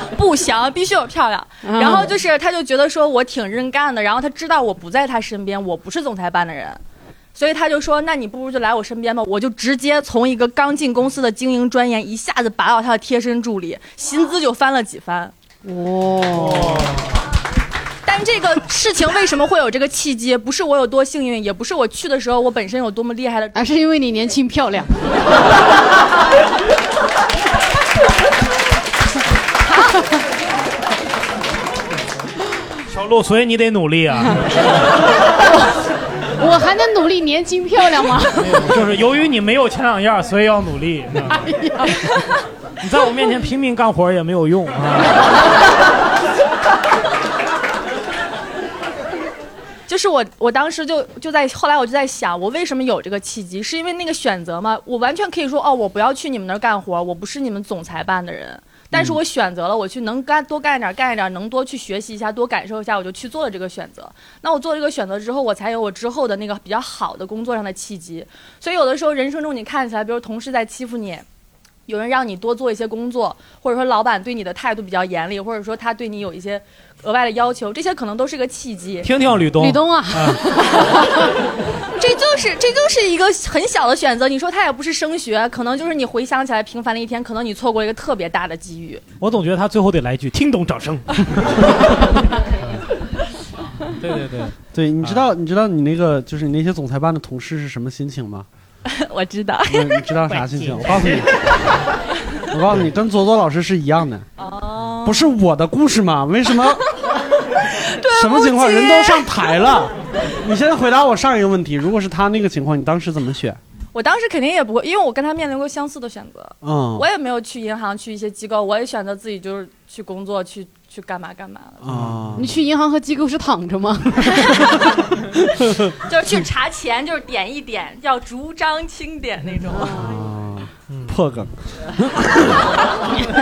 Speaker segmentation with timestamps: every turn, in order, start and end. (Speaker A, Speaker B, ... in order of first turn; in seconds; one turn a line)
Speaker A: 0.1-6.8
Speaker B: 1.6-2.1
Speaker A: 7.3-15.3
Speaker B: 15.6-16.9
Speaker C: 16.4-16.9
Speaker A: 18.1-23.7
Speaker B: 23.5-25.2
Speaker C: 32.9-34.7
Speaker B: 36.4-38.8
Speaker C: 38.4-41.5
Speaker B: 41.2-42.3
Speaker C: 42.8-45.4
Speaker A: 49.9-71.2
Speaker A: 71.9-79.1
Speaker C: 79.0-80.4
Speaker B: 79.5-81.3
Speaker A: 82.0-89.0
Speaker C: 89.2-92.9
Speaker C: 93.9-95.3
Speaker D: 94.7-98.5
Speaker A: 98.8-100.2
Speaker D: 99.7-101.4
Speaker C: 100.3-101.2
Speaker D: 102.5-104.3
Speaker A: 104.4-105.3
Speaker D: 105.0-107.0
Speaker A: 107.6-109.8
Speaker D: 108.0-113.6
Speaker A: 113.9-122.0
Speaker D: 116.6-117.1
Speaker D: 121.8-122.6
Speaker C: 121.9-122.3
Speaker B: 122.3-124.9
Speaker D: 125.6-125.9
Speaker A: 126.0-130.1
Speaker B: 129.8-130.1
Speaker D: 129.9-132.6
Speaker C: 130.9-131.2